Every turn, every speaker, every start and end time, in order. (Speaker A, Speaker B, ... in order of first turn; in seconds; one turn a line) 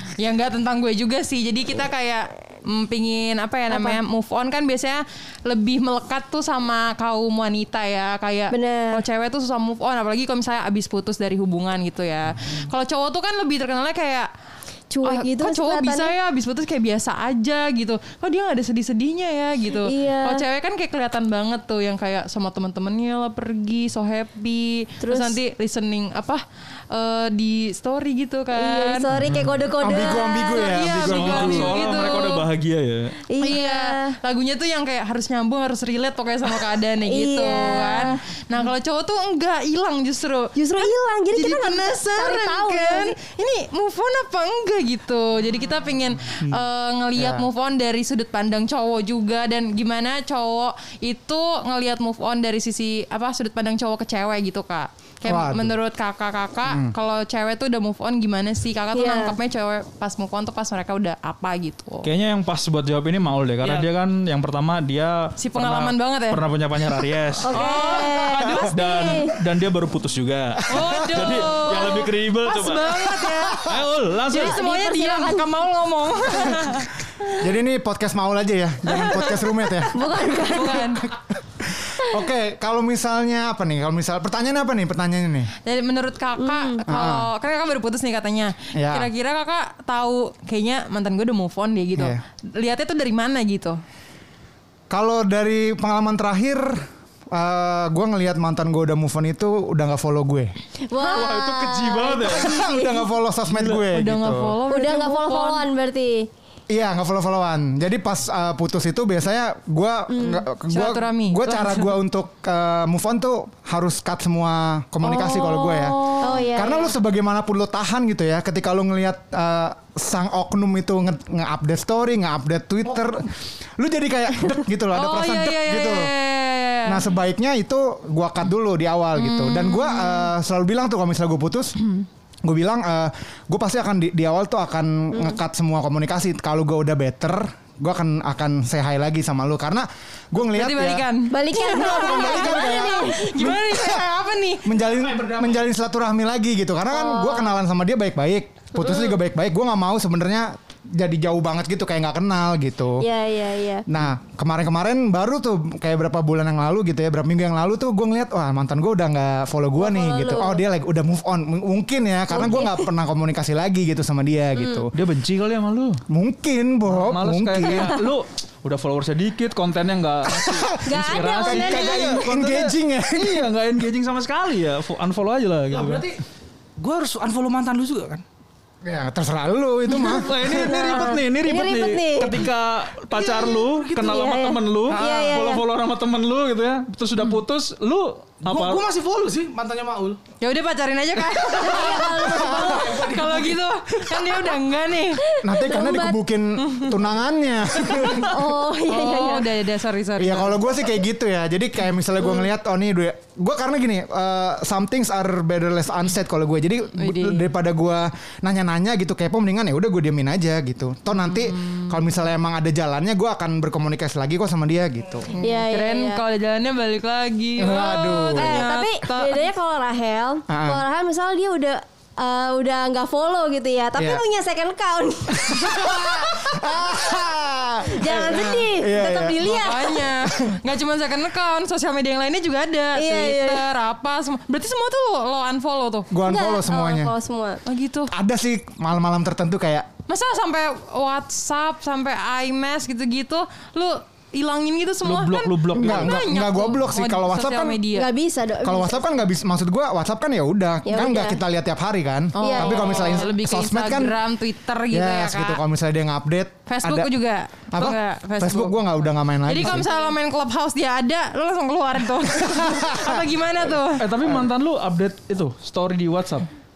Speaker A: 0.2-14.3
Speaker B: 3.7-4.0
Speaker B: 8.5-9.0
Speaker B: 14.9-16.1
Speaker A: 15.0-29.1
Speaker B: 19.8-20.4
Speaker B: 25.0-25.4
Speaker B: 28.6-30.8
Speaker C: 29.1-29.5
Speaker D: 29.3-31.9
Speaker A: 30.5-32.5
Speaker C: 30.9-33.1
Speaker B: 33.3-34.2
Speaker A: 33.4-62.1
Speaker B: 37.1-38.2
Speaker B: 40.6-43.2
Speaker D: 47.2-47.5
Speaker D: 55.3-55.8
Speaker D: 56.7-56.9
Speaker B: 58.9-59.4
Speaker C: 62.0-74.6
Speaker A: 63.6-63.9
Speaker A: 65.4-66.4
Speaker A: 67.0-69.3
Speaker B: 67.4-69.3
Speaker A: 70.7-73.7
Speaker D: 73.4-73.8
Speaker B: 74.3-75.5
Speaker A: 74.3-76.9
Speaker D: 77.4-80.8
Speaker A: 78.9-79.4
Speaker B: 79.9-81.0
Speaker A: 80.2-81.1
Speaker D: 81.6-85.5
Speaker A: 85.7-93.8
Speaker B: 86.4-86.8
Speaker D: 86.9-87.3
Speaker D: 88.7-89.1
Speaker D: 92.0-92.2
Speaker D: 94.9-100.5
Speaker B: 100.9-103.1
Speaker C: 101.0-102.6
Speaker D: 102.4-104.6
Speaker C: 103.5-103.8
Speaker A: 103.9-105.7
Speaker B: 104.7-106.3
Speaker D: 106.7-126.1
Speaker B: 110.1-110.4
Speaker A: 110.7-112.0
Speaker B: 115.1-116.9
Speaker A: 115.2-116.5
Speaker A: 124.9-127.1
Speaker D: 126.9-131.8
Speaker A: 129.2-130.3
Speaker D: 132.4-141.1
Speaker A: 140.5-144.7
Speaker B: 141.3-143.2
Speaker D: 141.6-144.1
Speaker D: 144.6-153.1
Speaker E: 144.8-145.6
Speaker B: 146.9-147.5
Speaker B: 148.8-149.1
Speaker B: 153.0-153.9
Speaker D: 153.9-164.9
Speaker B: 159.8-160.6
Speaker B: 162.3-162.9
Speaker B: 164.6-164.9
Speaker C: 164.9-166.0
Speaker D: 166.1-168.0
Speaker C: 166.9-176.1
Speaker D: 170.3-173.5
Speaker B: 170.8-172.3
Speaker E: 175.7-176.2
Speaker E: 176.8-178.2
Speaker D: 178.8-180.8
Speaker B: 179.9-182.5
Speaker C: 180.0-188.8
Speaker E: 183.1-184.2
Speaker B: 184.0-185.6
Speaker E: 184.9-185.4
Speaker E: 188.4-190.2
Speaker A: 190.4-195.2
Speaker B: 191.6-193.0
Speaker E: 192.0-194.2
Speaker D: 192.2-192.8
Speaker B: 195.2-196.2
Speaker D: 195.4-198.4
Speaker A: 196.6-196.9
Speaker B: 197.9-199.5
Speaker A: 198.8-200.6
Speaker D: 200.2-215.3
Speaker B: 202.2-202.5
Speaker A: 207.0-207.5
Speaker A: 211.3-211.9
Speaker B: 215.3-216.2
Speaker A: 215.3-219.4
Speaker D: 217.6-218.7
Speaker B: 217.8-226.6
Speaker D: 220.5-220.8
Speaker D: 224.0-224.2
Speaker D: 225.3-229.5
Speaker B: 227.8-230.1
Speaker A: 229.4-236.1
Speaker B: 232.9-233.7
Speaker D: 236.1-237.1
Speaker B: 236.2-237.6
Speaker A: 237.7-238.1
Speaker D: 238.1-239.9
Speaker A: 240.1-248.1
Speaker C: 245.0-246.2
Speaker D: 245.7-247.8
Speaker B: 247.9-249.0
Speaker D: 248.6-254.2
Speaker B: 250.9-251.4
Speaker A: 252.3-255.6
Speaker B: 252.4-253.2
Speaker D: 254.9-257.1
Speaker A: 256.7-258.8
Speaker D: 257.7-259.9
Speaker A: 259.4-264.0
Speaker D: 262.4-263.2
Speaker C: 264.0-266.5